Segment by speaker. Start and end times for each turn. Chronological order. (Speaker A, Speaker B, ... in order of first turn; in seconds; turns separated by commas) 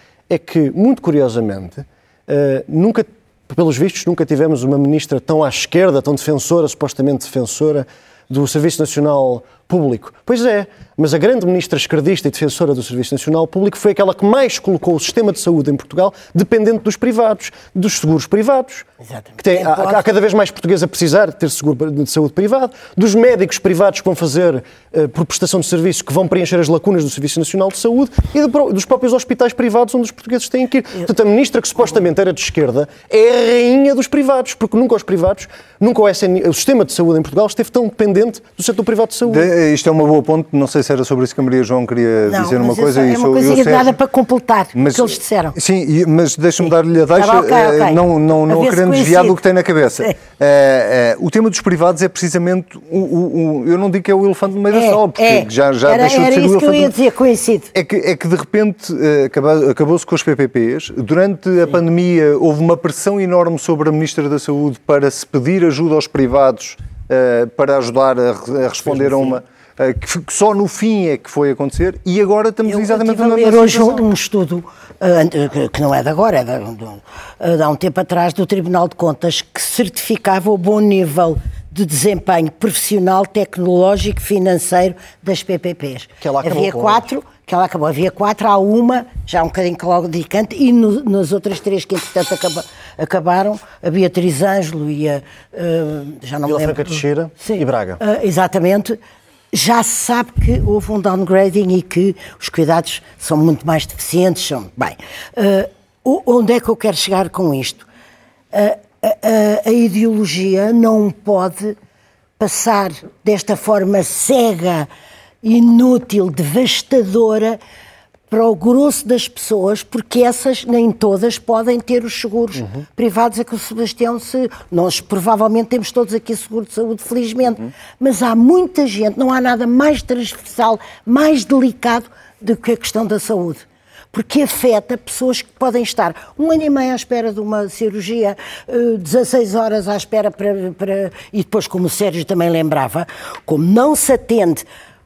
Speaker A: 0.3-39.5, Speaker B: 19.0-20.0, Speaker C: 39.3-44.0, Speaker B: 42.3-45.5, Speaker C: 44.7-56.9, Speaker B: 47.1-49.4, Speaker B: 54.7-57.7, Speaker C: 57.7-74.0, Speaker B: 72.7-99.0, Speaker A: 86.2-87.0, Speaker A: 96.4-98.0, Speaker B: 99.5-107.8, Speaker B: 108.5-111.8, Speaker B: 112.4-114.9, Speaker B: 115.4-117.6, Speaker B: 118.3-144.6